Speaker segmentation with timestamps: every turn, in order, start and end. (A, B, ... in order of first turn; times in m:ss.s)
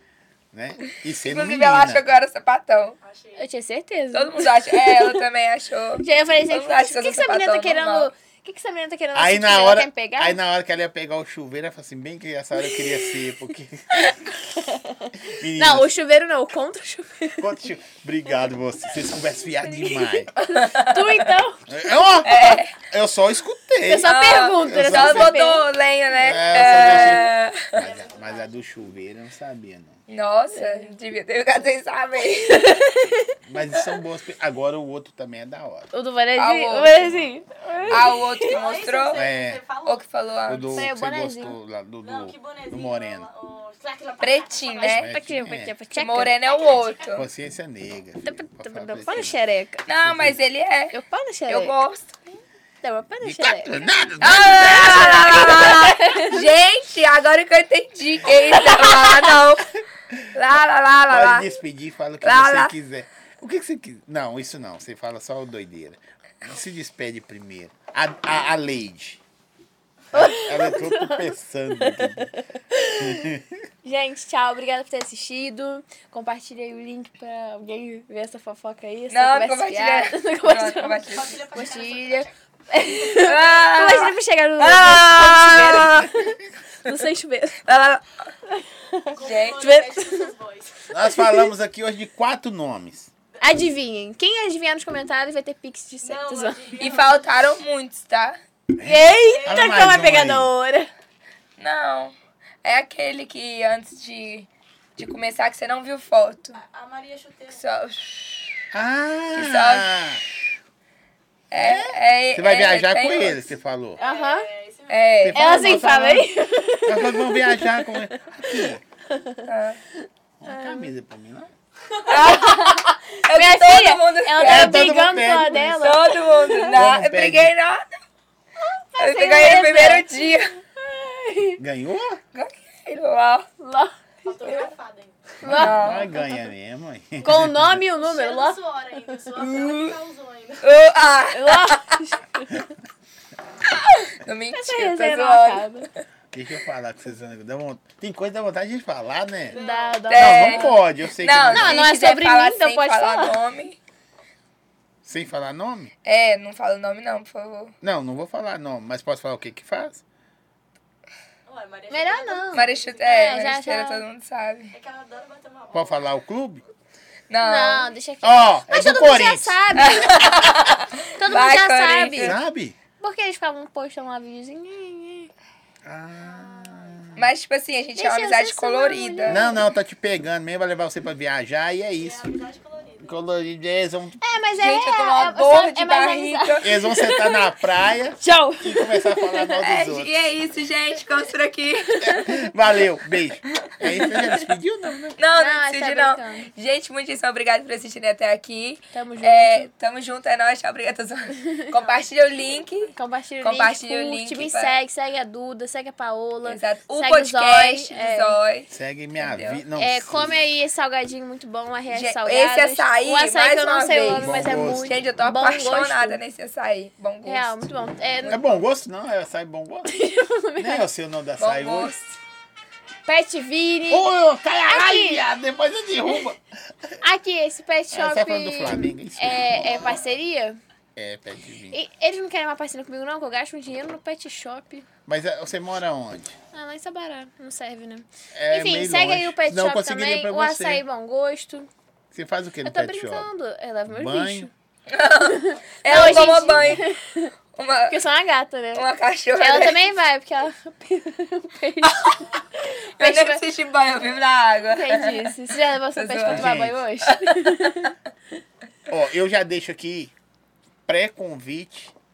0:00.5-0:02.1 A
0:01.2-0:03.0 B
0:03.0-0:03.5 C
0:03.4-0:05.2 D
0:04.1-0:08.1 B
0:06.0-0:10.4 D
0:09.1-0:14.7 A
0:12.6-0:13.1 D
0:14.6-0:17.5 D
0:15.2-0:15.9 A
0:17.4-0:20.3 A
0:19.7-0:21.7 D
0:20.4-0:21.3 B
0:21.7-0:25.4 A
0:22.2-0:22.8 B
0:23.8-0:25.7 D
0:24.0-0:27.7 B
0:26.2-0:30.0 A
0:27.1-0:28.6 C
0:30.1-0:32.8 B
0:30.5-0:30.9 D
0:32.5-0:33.4 D
0:33.4-0:35.9 A
0:35.9-0:38.5 D
0:36.4-0:37.0 B
0:37.0-0:38.2 A
0:37.9-0:39.2 B
0:38.5-0:40.0 C
0:39.1-0:39.6 A
0:39.8-0:40.9 B
0:40.5-0:43.3 A
0:40.7-0:41.6 D
0:42.0-0:45.0 C
0:44.2-0:45.1 B
0:44.8-0:46.3 D
0:44.9-0:46.3 A
0:46.0-0:47.3 B
0:46.5-0:47.2 C
0:47.1-0:49.4 A
0:48.2-0:49.8 D
0:49.9-0:50.9 B
0:50.0-0:50.4 A
0:50.9-0:51.8 D
0:51.5-0:52.2 B
0:52.8-0:53.8 D
0:53.2-0:55.9 A
0:54.2-0:59.7 B
0:54.9-0:56.4 D
0:58.3-0:59.4 D
1:00.3-1:01.5 B
1:01.1-1:09.2 A
1:02.2-1:02.7 B
1:10.1-1:12.3 A
1:10.1-1:27.6 D
1:13.0-1:13.6 A
1:19.1-1:21.4 B
1:21.0-1:22.3 C
1:23.2-1:26.2 B
1:27.7-1:28.0 B
1:28.5-1:30.3 D
1:29.1-1:30.9 C
1:29.2-1:29.6 B
1:30.9-1:33.1 A
1:31.0-1:31.5 D
1:33.4-1:36.6 D
1:36.0-1:37.3 C
1:36.8-1:38.4 B
1:38.8-1:40.5 A
1:38.8-1:40.9 D
1:39.3-1:39.9 C
1:41.6-1:46.6 B
1:46.6-1:47.6 C
1:47.6-1:48.6 B
1:48.7-1:50.2 A
1:49.3-1:50.2 B
1:51.5-1:53.4 B
1:51.6-1:54.0 A
1:54.0-1:55.3 C
1:54.0-1:54.5 D
1:54.9-1:55.6 B
1:55.2-1:56.3 A
1:55.3-1:59.5 D
1:56.8-1:58.8 A
1:59.4-1:59.8 B
2:00.4-2:01.5 A
2:00.5-2:00.9 D
2:02.1-2:07.9 B
2:02.2-2:06.7 D
2:04.4-2:06.0 A
2:06.7-2:07.5 A
2:08.6-2:11.6 D
2:09.0-2:10.6 B
2:11.6-2:12.2 A
2:12.3-2:13.5 B
2:13.6-2:14.7 D
2:14.2-2:15.4 C
2:15.4-2:16.1 D
2:15.4-2:17.8 A
2:15.5-2:16.1 B
2:17.2-2:20.7 C
2:17.2-2:19.2 D
2:19.4-2:20.0 B
2:20.6-2:22.0 B
2:21.3-2:22.7 D
2:23.9-2:25.9 B
2:24.5-2:25.9 D
2:26.3-2:29.6 A
2:29.5-2:30.1 C
2:29.5-2:30.7 D
2:30.1-2:33.8 B
2:30.1-2:31.9 A
2:31.5-2:33.4 D
2:35.0-2:35.9 A
2:36.0-2:37.7 B
2:37.8-2:40.0 A
2:41.5-2:43.6 C
2:41.9-2:44.0 D
2:42.5-2:44.7 B
2:44.7-2:46.0 C
2:45.7-2:46.6 A
2:47.3-2:47.9 B
2:47.4-2:52.4 D
2:48.2-2:49.6 A
2:49.8-2:52.4 B
2:52.2-2:52.8 A
2:53.0-2:55.3 D
2:55.8-2:57.2 A
2:56.2-2:57.1 C
2:57.2-2:59.5 B
2:58.0-2:59.7 D
2:59.2-3:02.3 A
3:02.0-3:03.2 C
3:03.0-3:04.2 A
3:04.2-3:07.4 D
3:04.6-3:06.7 B
3:06.6-3:10.1 A
3:08.2-3:09.6 D
3:09.6-3:12.3 B
3:12.0-3:15.2 A
3:15.2-3:24.8 B
3:15.3-3:16.5 D
3:18.9-3:19.7 D
3:21.7-3:22.9 C
3:23.0-3:28.4 D
3:26.4-3:29.6 B
3:28.7-3:30.3 A
3:29.8-3:36.2 D
3:31.9-3:37.7 B
3:34.2-3:35.0 A
3:37.2-3:38.4 D
3:38.2-3:38.6 B
3:38.3-3:40.0 A
3:39.9-3:40.9 D
3:40.6-3:41.9 A
3:41.4-3:42.2 B
3:43.1-3:44.1 D
3:43.9-3:47.0 A
3:44.7-3:45.2 D
3:47.0-3:50.6 D
3:47.9-3:50.0 A
3:51.0-3:51.8 A
3:51.7-3:54.9 D
3:55.1-3:56.4 A
3:56.5-4:01.7 D
3:58.3-4:00.8 A
4:02.1-4:03.3 A
4:02.6-4:04.5 D
4:03.9-4:04.5 A
4:04.9-4:06.8 B
4:05.3-4:07.3 D
4:06.6-4:06.8 A
4:07.6-4:08.0 B
4:07.9-4:08.9 D
4:08.8-4:09.8 B
4:09.4-4:13.4 D
4:11.9-4:12.2 B
4:13.0-4:15.4 B
4:14.7-4:17.9 D
4:16.0-4:16.5 B
4:16.3-4:16.8 A
4:17.0-4:17.9 B
4:18.9-4:20.1 A
4:20.9-4:21.9 A